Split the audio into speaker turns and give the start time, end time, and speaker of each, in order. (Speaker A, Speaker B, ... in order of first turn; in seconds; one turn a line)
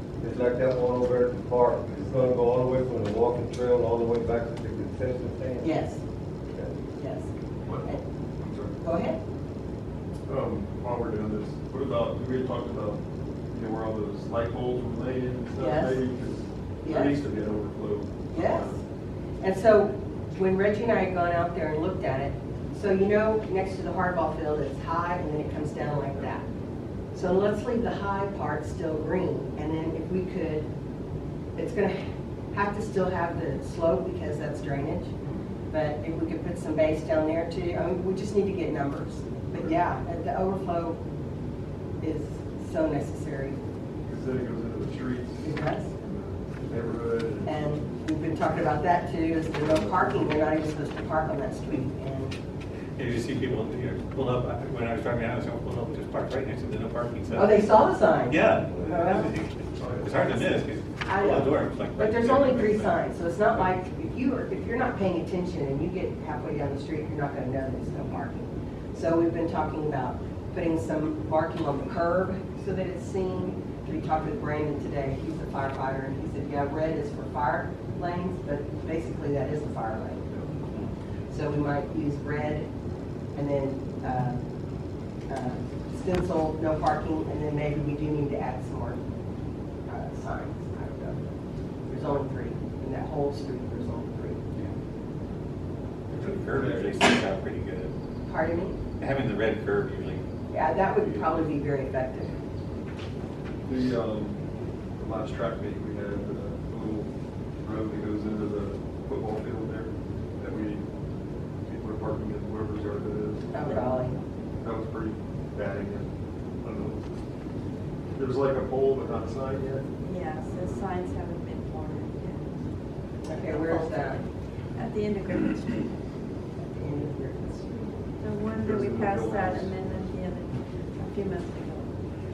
Speaker A: 0.2-5.7
Speaker B: 5.6-6.0
Speaker B: 7.0-7.3
Speaker B: 8.8-9.2
Speaker C: 10.3-13.0
Speaker C: 13.5-18.8
Speaker B: 15.6-16.0
Speaker B: 16.8-17.2
Speaker B: 18.3-18.7
Speaker B: 19.4-26.4
Speaker B: 27.1-30.7
Speaker B: 31.6-32.0
Speaker B: 32.5-35.1
Speaker B: 35.7-41.0
Speaker B: 42.0-43.6
Speaker C: 44.0-47.6
Speaker B: 45.4-45.9
Speaker B: 47.5-52.3
Speaker C: 49.8-50.1
Speaker D: 53.0-57.7
Speaker B: 57.3-59.3
Speaker D: 58.3-63.0
Speaker C: 59.8-60.2
Speaker B: 61.0-80.4
Speaker B: 81.3-82.7
Speaker B: 83.3-84.4
Speaker B: 85.3-89.0
Speaker B: 89.9-91.2
Speaker B: 91.9-94.4
Speaker D: 96.1-97.9
Speaker C: 96.2-97.0
Speaker B: 98.2-98.8
Speaker D: 99.0-100.2
Speaker B: 100.5-102.3
Speaker C: 103.6-104.4
Speaker C: 105.0-107.1
Speaker C: 107.6-110.8
Speaker C: 111.7-113.6
Speaker B: 113.5-114.1
Speaker E: 113.7-114.2
Speaker C: 114.6-116.1
Speaker C: 116.6-117.2
Speaker C: 118.1-119.8
Speaker E: 120.0-122.5
Speaker B: 123.2-124.2
Speaker E: 123.3-124.2
Speaker E: 124.7-125.9
Speaker B: 126.7-127.9
Speaker E: 128.2-131.9
Speaker C: 128.6-130.1